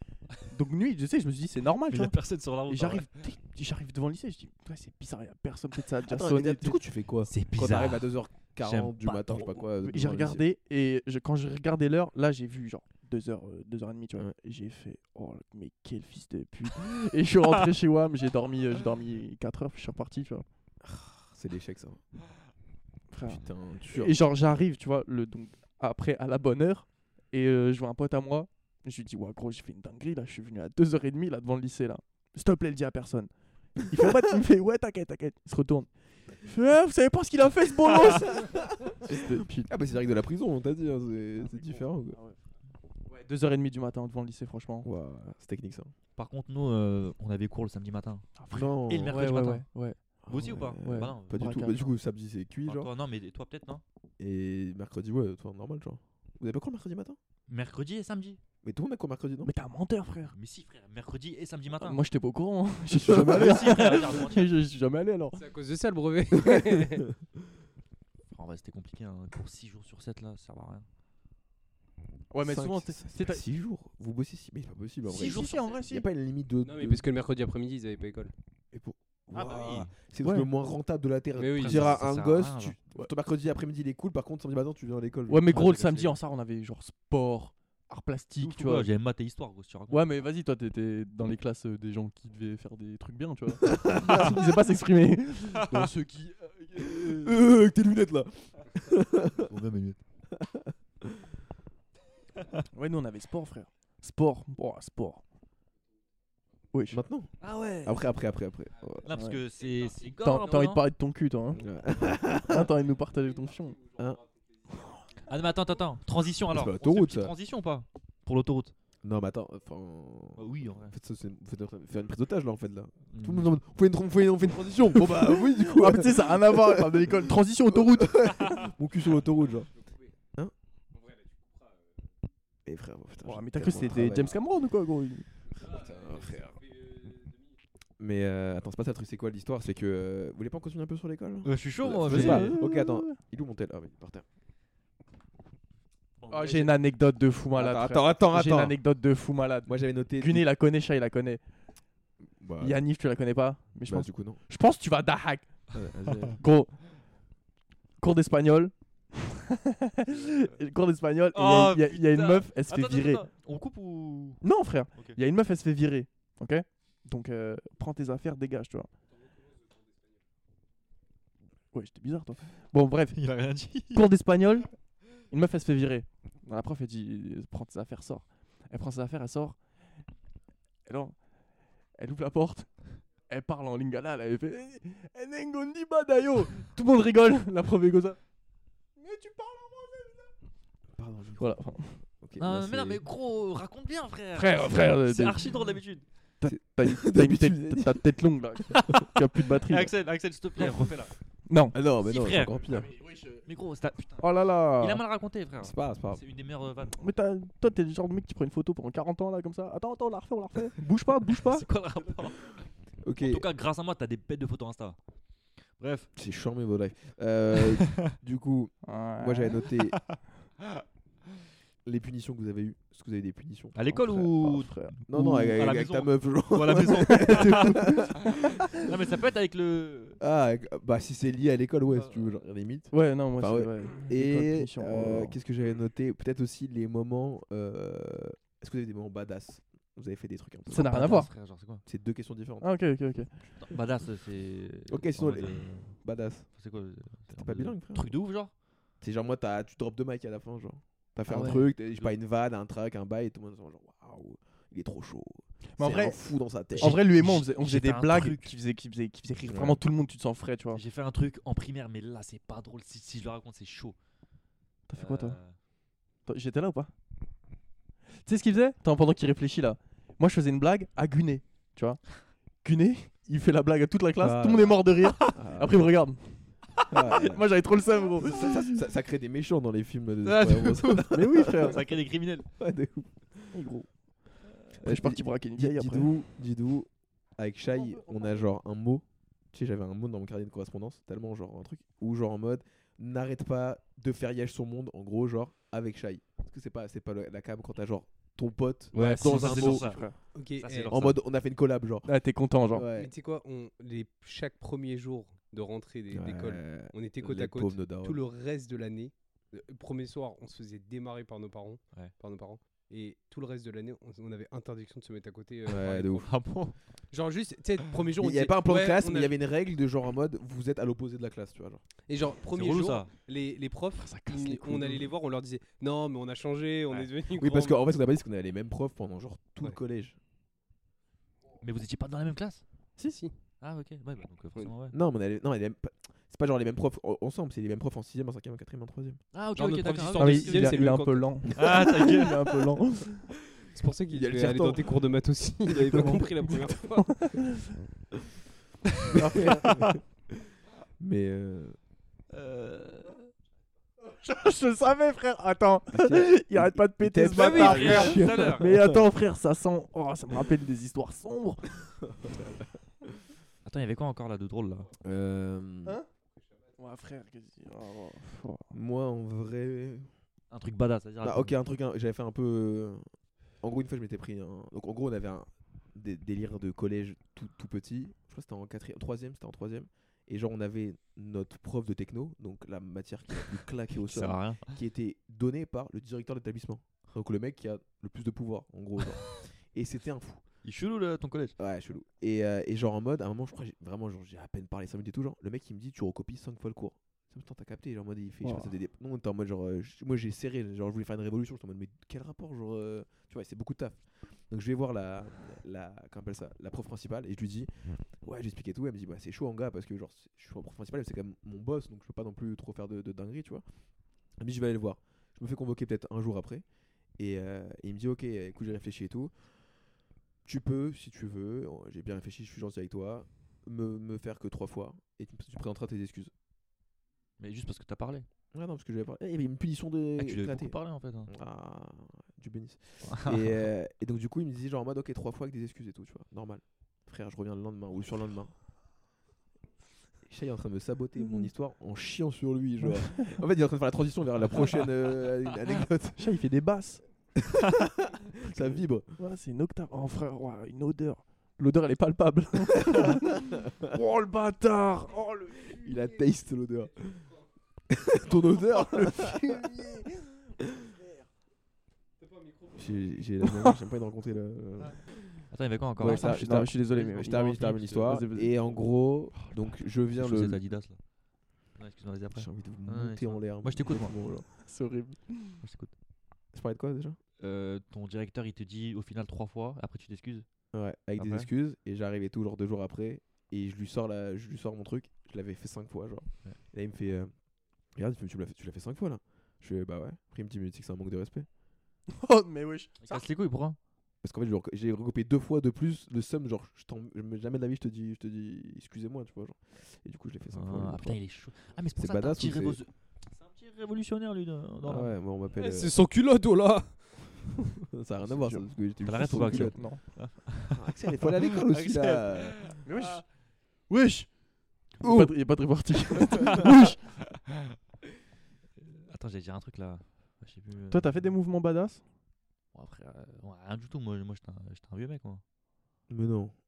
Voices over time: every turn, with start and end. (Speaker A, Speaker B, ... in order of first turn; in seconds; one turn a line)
Speaker A: 0.4-6.8
Speaker B: 1.9-3.1
Speaker C: 6.0-10.4
Speaker B: 7.3-9.6
Speaker A: 9.8-20.4
Speaker C: 20.8-22.0
Speaker A: 23.1-33.3
Speaker C: 23.2-24.2
Speaker A: 33.8-39.7
Speaker C: 38.0-42.2
Speaker A: 41.7-42.4
Speaker A: 43.1-44.9
Speaker C: 44.8-45.9
Speaker B: 46.1-48.3
Speaker A: 48.4-50.0
Speaker C: 48.5-49.2
Speaker B: 48.9-49.6
Speaker C: 50.2-52.9
Speaker B: 50.3-51.4
Speaker A: 50.8-51.9
Speaker B: 52.6-53.8
Speaker C: 54.2-57.2
Speaker B: 57.5-58.4
Speaker C: 58.6-59.5
Speaker A: 59.4-60.3
Speaker B: 60.3-62.0
Speaker A: 61.8-65.4
Speaker C: 63.0-63.6
Speaker B: 63.0-64.5
Speaker D: 65.3-67.1
Speaker C: 66.4-67.0
Speaker B: 68.3-70.8
Speaker A: 72.3-73.4
Speaker C: 72.4-77.0
Speaker A: 75.0-76.0
Speaker B: 75.2-75.7
Speaker D: 76.6-78.3
Speaker C: 78.7-85.5
Speaker B: 79.3-79.9
Speaker A: 80.2-80.5
Speaker D: 81.4-82.0
Speaker B: 81.6-82.8
Speaker A: 85.3-88.9
Speaker B: 85.5-86.2
Speaker B: 88.4-90.1
Speaker A: 89.9-97.3
Speaker C: 93.7-94.3
Speaker B: 95.6-95.9
Speaker C: 96.8-99.5
Speaker B: 99.5-100.0
Speaker C: 100.3-101.3
Speaker A: 102.7-105.2
Speaker A: 106.7-107.0
Speaker C: 106.9-109.1
Speaker B: 107.4-108.1
Speaker B: 109.0-110.9
Speaker A: 109.1-109.4
Speaker A: 110.2-111.6
Speaker C: 111.5-112.8
Speaker A: 112.4-113.8
Speaker B: 115.2-118.7
Speaker C: 116.5-117.3
Speaker C: 119.0-127.2
Speaker B: 120.4-120.9
Speaker B: 123.1-123.5
Speaker A: 124.9-128.5
Speaker C: 127.7-129.7
Speaker D: 130.9-131.7
Speaker C: 132.7-134.4
Speaker A: 133.2-135.3
Speaker C: 135.6-136.6
Speaker D: 135.9-137.3
Speaker C: 138.0-144.2
Speaker B: 141.4-142.5
Speaker A: 142.1-143.2
Speaker B: 146.2-146.7
Speaker A: 146.3-151.4
Speaker C: 147.6-148.8
Speaker C: 149.7-150.4
Speaker C: 152.4-152.8
Speaker A: 152.6-155.5
Speaker C: 153.8-154.4
Speaker C: 155.7-156.4
Speaker A: 156.4-156.8
Speaker A: 158.0-163.3
Speaker B: 161.3-164.4
Speaker A: 164.4-168.9
Speaker A: 171.7-173.2
Speaker B: 173.1-174.0
Speaker A: 173.9-174.7
Speaker A: 175.3-179.6
Speaker A: 180.8-181.2
Speaker A: 181.9-182.7
Speaker A: 183.2-188.2
Speaker A: 189.0-190.3
Speaker C: 190.9-191.6
Speaker A: 191.4-192.0
Speaker C: 192.1-193.0
Speaker B: 192.4-196.0
Speaker A: 194.3-195.5
Speaker A: 196.4-199.9
Speaker C: 196.4-198.0
Speaker B: 198.7-201.1
Speaker A: 201.5-201.8
Speaker C: 201.7-202.9
Speaker B: 202.0-202.9
Speaker A: 202.9-203.4
Speaker B: 203.4-207.0
Speaker A: 204.2-205.0
Speaker C: 205.6-206.2
Speaker A: 206.9-211.7
Speaker B: 211.3-212.6
Speaker C: 213.0-213.4
Speaker B: 213.2-215.0
Speaker B: 215.8-216.1
Speaker C: 216.2-220.0
Speaker B: 217.7-218.1
Speaker A: 218.8-219.6
Speaker C: 221.8-223.7
Speaker B: 223.7-230.2
Speaker A: 223.9-225.0
Speaker C: 225.1-228.3
Speaker A: 227.1-228.7
Speaker C: 230.2-241.2
Speaker B: 231.9-232.2
Speaker A: 232.9-235.4
Speaker A: 240.7-241.3
Speaker B: 240.7-241.8
Speaker C: 241.8-242.7
Speaker A: 242.6-243.3
Speaker B: 243.6-248.5
Speaker C: 244.9-246.5
Speaker C: 247.3-248.1
Speaker C: 249.0-257.0
Speaker A: 251.3-251.7
Speaker B: 251.4-252.1
Speaker A: 255.8-256.2
Speaker A: 256.7-260.8
Speaker B: 256.8-258.5
Speaker C: 259.4-259.8
Speaker B: 260.7-263.9
Speaker A: 264.9-265.4
Speaker B: 265.0-265.5
Speaker A: 266.2-266.9
Speaker A: 268.2-278.8
Speaker C: 274.2-275.9
Speaker C: 276.9-277.5
Speaker C: 278.2-281.9
Speaker B: 280.2-282.5
Speaker A: 281.1-281.8
Speaker C: 282.6-283.5
Speaker A: 283.5-283.9
Speaker C: 284.8-299.9
Speaker A: 284.8-286.1
Speaker A: 287.7-288.4
Speaker A: 298.9-300.2
Speaker B: 298.9-300.0
Speaker D: 300.3-301.0
Speaker B: 300.6-301.2
Speaker C: 300.9-302.1
Speaker A: 302.1-302.9
Speaker C: 302.7-303.1
Speaker D: 302.9-316.3
Speaker C: 306.1-308.2
Speaker C: 315.7-316.3
Speaker B: 316.2-316.7
Speaker D: 317.1-319.4
Speaker C: 318.2-321.8
Speaker D: 322.1-327.8
Speaker B: 322.5-323.1
Speaker A: 324.0-325.1
Speaker C: 327.3-330.2
Speaker B: 331.6-332.6
Speaker D: 333.0-333.3
Speaker B: 333.6-334.9
Speaker C: 334.9-339.2
Speaker B: 339.3-340.8
Speaker D: 339.5-341.5
Speaker A: 340.1-343.3
Speaker B: 341.5-342.6
Speaker D: 343.7-347.3
Speaker C: 344.1-345.0
Speaker C: 345.7-346.2
Speaker A: 345.9-347.8
Speaker C: 349.1-350.0
Speaker A: 349.1-349.8
Speaker C: 351.0-351.8
Speaker B: 352.3-353.3
Speaker A: 354.1-361.7
Speaker C: 355.9-359.0
Speaker D: 357.3-358.2
Speaker B: 357.4-358.7
Speaker C: 362.2-362.6
Speaker B: 363.6-364.9
Speaker C: 365.0-366.0
Speaker A: 366.8-368.7
Speaker C: 368.7-370.1
Speaker B: 370.5-371.5
Speaker C: 371.2-373.1
Speaker C: 373.6-390.4
Speaker B: 383.9-384.7
Speaker B: 390.6-391.6
Speaker C: 391.6-413.6
Speaker A: 398.4-398.7
Speaker C: 414.4-416.6
Speaker C: 417.2-419.3
Speaker C: 420.4-426.3
Speaker B: 427.4-428.3
Speaker C: 428.5-438.5
Speaker B: 430.2-431.3
Speaker B: 433.1-433.4
Speaker C: 440.2-446.2
Speaker A: 442.8-443.3
Speaker A: 446.2-447.0
Speaker C: 447.4-449.1
Speaker A: 449.2-456.1
Speaker C: 455.7-457.3
Speaker C: 457.9-459.6
Speaker A: 458.8-461.3
Speaker C: 462.7-465.4
Speaker B: 465.5-466.4
Speaker C: 466.0-470.6
Speaker A: 466.0-468.5
Speaker B: 470.1-471.0
Speaker B: 471.7-474.1
Speaker C: 472.3-474.4
Speaker A: 474.5-475.6
Speaker B: 475.6-475.9
Speaker C: 476.5-477.2
Speaker B: 477.4-480.4
Speaker C: 480.7-487.3
Speaker C: 487.9-491.5
Speaker A: 492.1-493.2
Speaker B: 493.0-493.8
Speaker C: 494.2-501.2
Speaker B: 500.5-505.1
Speaker C: 501.9-502.8
Speaker C: 504.8-505.9
Speaker D: 505.5-507.7
Speaker C: 507.9-512.7
Speaker A: 508.3-510.0
Speaker B: 509.0-513.2
Speaker A: 512.8-513.3
Speaker A: 513.9-514.3
Speaker A: 515.0-517.0
Speaker C: 515.0-515.3
Speaker B: 518.8-521.2
Speaker A: 520.9-522.0
Speaker B: 522.7-525.4
Speaker C: 526.1-526.5